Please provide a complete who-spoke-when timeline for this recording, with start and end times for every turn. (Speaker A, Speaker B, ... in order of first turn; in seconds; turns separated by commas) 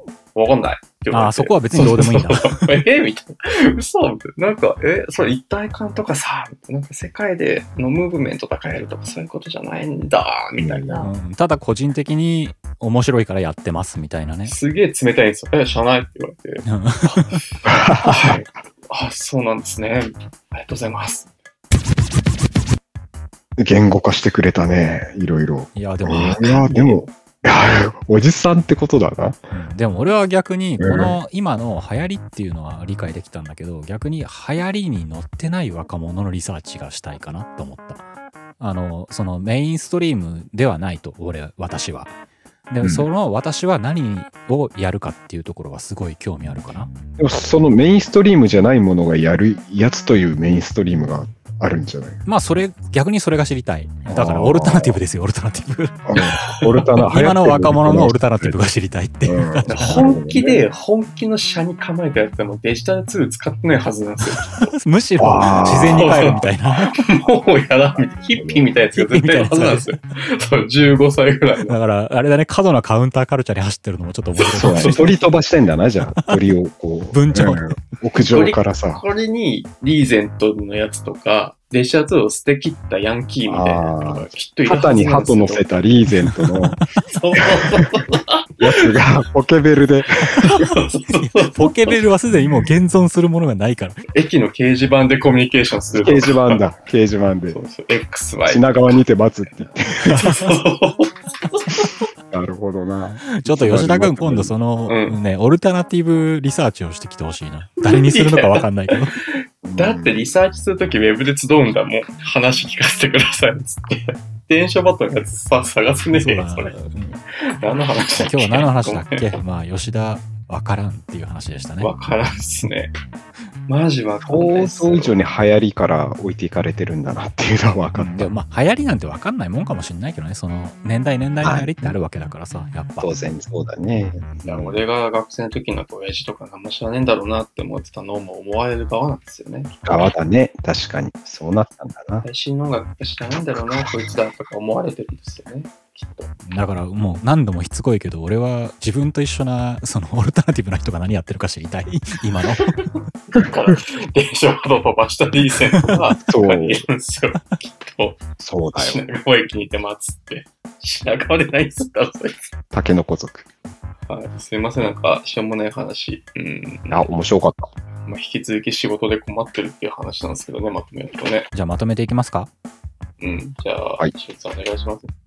Speaker A: 0.3-11.1, Speaker B: 1.1-2.8, Speaker C: 10.6-10.9, Speaker B: 11.0-14.6, Speaker A: 14.4-21.3, Speaker B: 16.6-17.4, Speaker C: 17.6-18.4, Speaker C: 23.6-29.5, Speaker B: 25.7-26.7, Speaker A: 26.6-27.0, Speaker B: 29.5-38.0, Speaker C: 30.8-31.1, Speaker B: 38.6-42.1, Speaker B: 42.7-46.9, Speaker C: 47.2-52.2, Speaker B: 52.3-60.1, Speaker C: 54.1-55.0, Speaker C: 56.1-58.6, Speaker C: 59.2-60.6, Speaker A: 59.7-64.7, Speaker B: 64.4-66.9, Speaker C: 65.2-68.7, Speaker A: 65.6-71.8, Speaker B: 68.9-70.0, Speaker B: 71.7-75.1, Speaker A: 74.3-75.2, Speaker C: 74.5-79.0, Speaker B: 77.1-77.8, Speaker A: 78.3-85.7, Speaker C: 83.5-86.8, Speaker B: 86.2-86.9, Speaker A: 87.1-88.9, Speaker C: 88.6-90.7, Speaker B: 90.4-94.0, Speaker A: 90.6-92.0, Speaker C: 92.3-92.7, Speaker A: 94.1-96.6, Speaker C: 95.9-97.6, Speaker A: 97.5-99.0, Speaker C: 98.5-100.2, Speaker A: 100.1-102.0, Speaker B: 100.1-100.5, Speaker C: 102.3-104.5, Speaker B: 103.3-109.2, Speaker A: 104.9-105.2, Speaker A: 107.8-116.8, Speaker C: 109.6-110.3, Speaker B: 116.1-117.2, Speaker A: 117.4-119.4, Speaker B: 118.2-121.9, Speaker A: 121.8-122.9, Speaker A: 123.7-125.1, Speaker C: 124.2-128.3, Speaker B: 128.0-133.1, Speaker C: 131.4-132.0, Speaker C: 133.0-134.8, Speaker A: 134.4-140.1, Speaker C: 139.8-142.2, Speaker A: 142.2-146.3, Speaker C: 143.7-144.1, Speaker B: 146.5-152.8, Speaker A: 152.8-158.2, Speaker C: 156.3-156.8, Speaker C: 158.4-159.0, Speaker A: 158.7-162.5, Speaker C: 162.7-163.5, Speaker A: 164.1-167.0, Speaker C: 166.9-167.7, Speaker A: 168.0-171.5, Speaker B: 171.5-172.5, Speaker A: 173.2-175.1